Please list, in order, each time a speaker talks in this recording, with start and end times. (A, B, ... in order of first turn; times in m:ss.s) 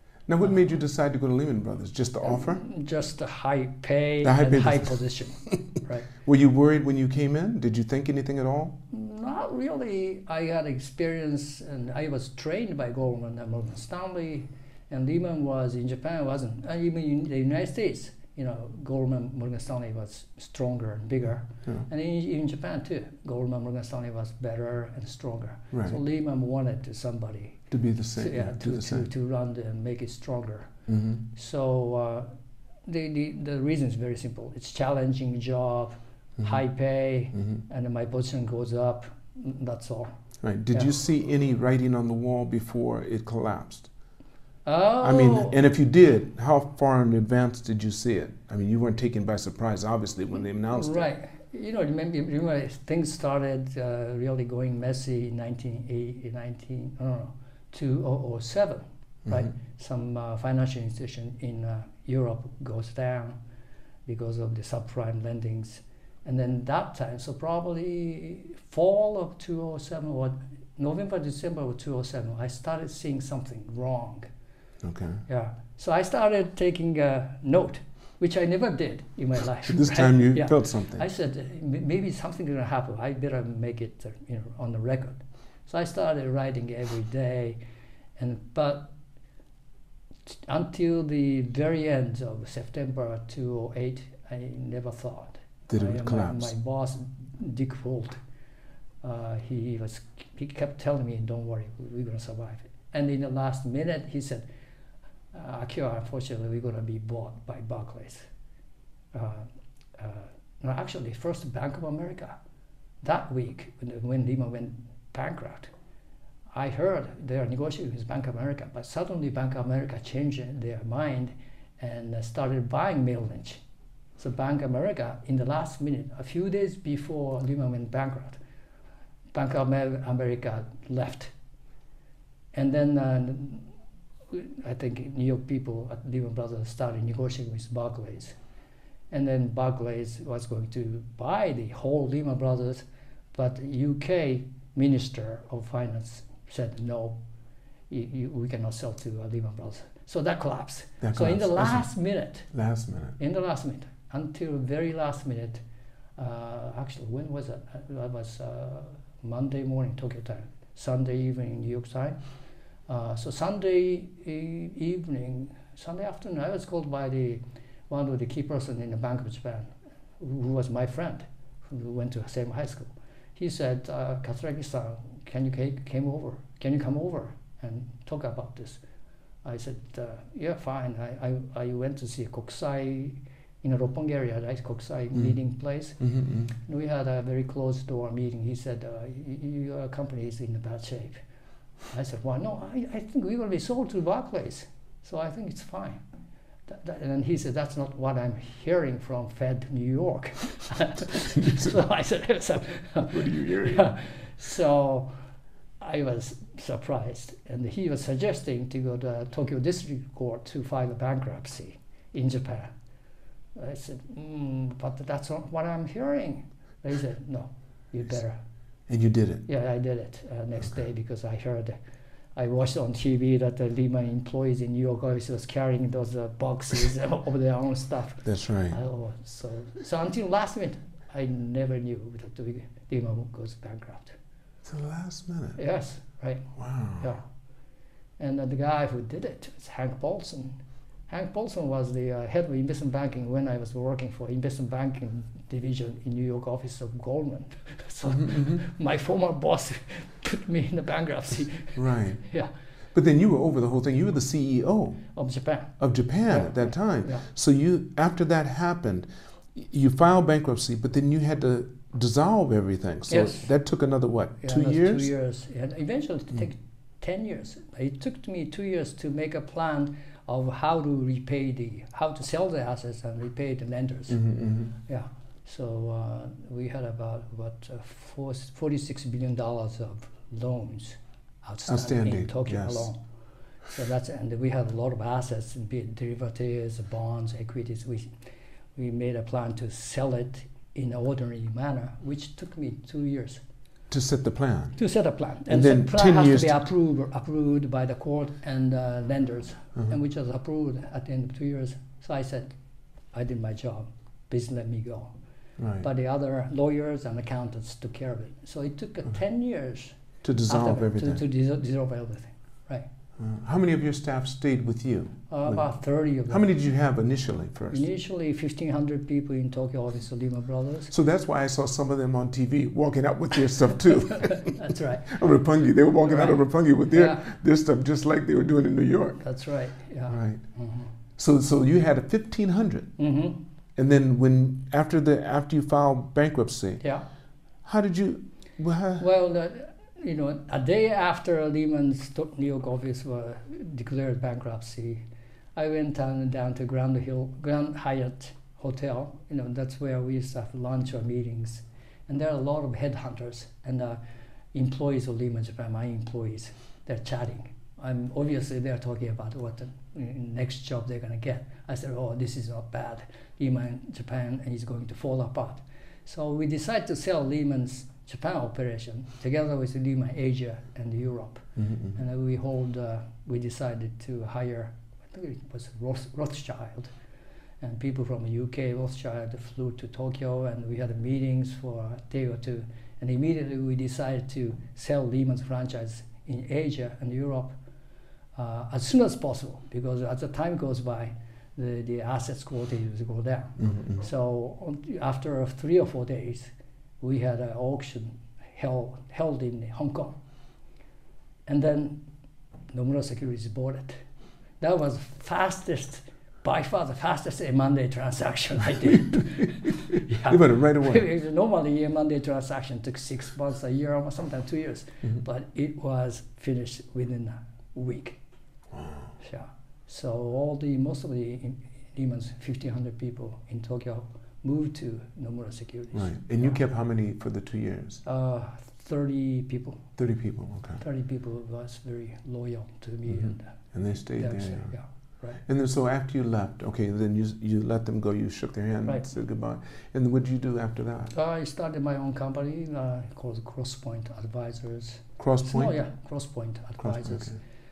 0:00.3-0:02.6 A
0:02.2-0:06.1 B
0:04.2-0:05.0 A
0:06.2-0:08.8 A
0:08.9-0:27.6 B
0:25.7-0:26.0 A
0:27.7-0:29.0 A
0:28.2-0:30.7 B
0:30.9-0:31.2 A
0:31.3-0:32.3 B
0:32.9-0:40.1 B
0:40.4-0:43.9 A
0:44.6-0:45.6 B
0:45.0-0:51.0 A
0:50.7-1:03.4 B
1:04.1-1:14.3 B
1:14.8-1:15.2 A
1:15.3-1:27.6 B
1:19.6-1:21.0 A
1:28.2-1:28.9 B
1:30.3-1:38.2 B
1:35.7-1:36.5 A
1:39.0-1:44.4 B
1:45.3-1:48.2 B
1:49.1-1:52.3 B
1:53.0-1:55.7 B
1:56.5-2:03.6 B
2:04.2-2:08.4 B
2:09.3-2:11.3 B
2:12.5-2:13.7 B
2:14.3-2:18.3 B
2:19.1-2:27.2 B
2:27.9-2:32.5 B
2:31.0-2:31.8 A
2:32.5-2:33.2 A
2:33.2-2:35.6 B
2:36.2-2:42.2 B
2:42.9-2:58.8 B
2:59.4-3:06.0 B
3:06.0-3:06.5 A
3:06.5-3:11.2 B
3:11.9-3:16.0 B
3:16.7-3:25.1 B
3:21.3-3:21.7 A
3:23.1-3:23.9 A
3:25.8-3:32.7 B
3:33.6-3:38.4 B
3:38.9-3:39.4 A
3:39.5-3:41.8 B
3:42.4-3:54.2 B
3:48.2-3:48.8 A
3:54.6-3:55.6 A
3:55.6-3:56.5 B
3:56.6-3:57.1 A
3:58.2-4:00.6 B
4:01.1-4:12.5 B
4:08.0-4:08.6 A
4:11.8-4:12.2 A
4:12.9-4:15.0 A
4:15.1-4:17.2 B
4:15.8-4:25.1 A
4:23.1-4:23.5 B
4:24.4-4:34.2 B
4:34.1-4:34.7 A
4:34.8-4:43.0 B
4:41.7-4:42.9 A
4:43.7-4:48.1 B
4:48.8-4:53.4 B
4:53.9-4:54.7 A
4:54.8-5:02.5 B
4:55.5-4:56.6 A
5:03.1-5:05.1 B
5:05.6-5:05.8 A
5:05.8-5:09.9 B
5:10.2-5:11.2 A
5:10.5-5:12.9 B
5:13.2-5:15.6 A
5:15.3-5:16.5 B
5:16.3-5:17.8 A
5:17.7-5:20.9 B
5:20.9-5:29.2 A
5:24.1-5:25.2 B
5:26.0-5:27.2 B
5:29.2-5:30.9 B
5:30.1-5:30.4 A
5:31.2-5:32.9 A
5:33.0-5:33.4 B
5:33.8-5:36.8 A
5:37.6-5:39.0 A
5:39.0-5:45.0 B
5:45.6-5:54.0 B
5:54.5-6:16.9 B
6:11.6-6:11.9 A
6:17.6-6:27.5 B
6:28.3-6:40.2 B
6:33.6-6:33.9 A
6:41.5-6:42.0 B
6:42.7-6:44.0 B
6:44.6-6:58.2 B
6:50.2-6:51.0 A
6:58.7-6:59.0 A
6:59.2-7:06.6 B
7:05.9-7:08.0 A
7:08.0-7:09.9 B
7:10.0-7:10.8 A
7:10.8-7:13.6 B
7:13.1-7:14.7 A
7:14.2-7:15.4 B
7:15.4-7:21.1 A
7:21.1-7:27.4 B
7:25.2-7:25.8 A
7:26.8-7:27.4 A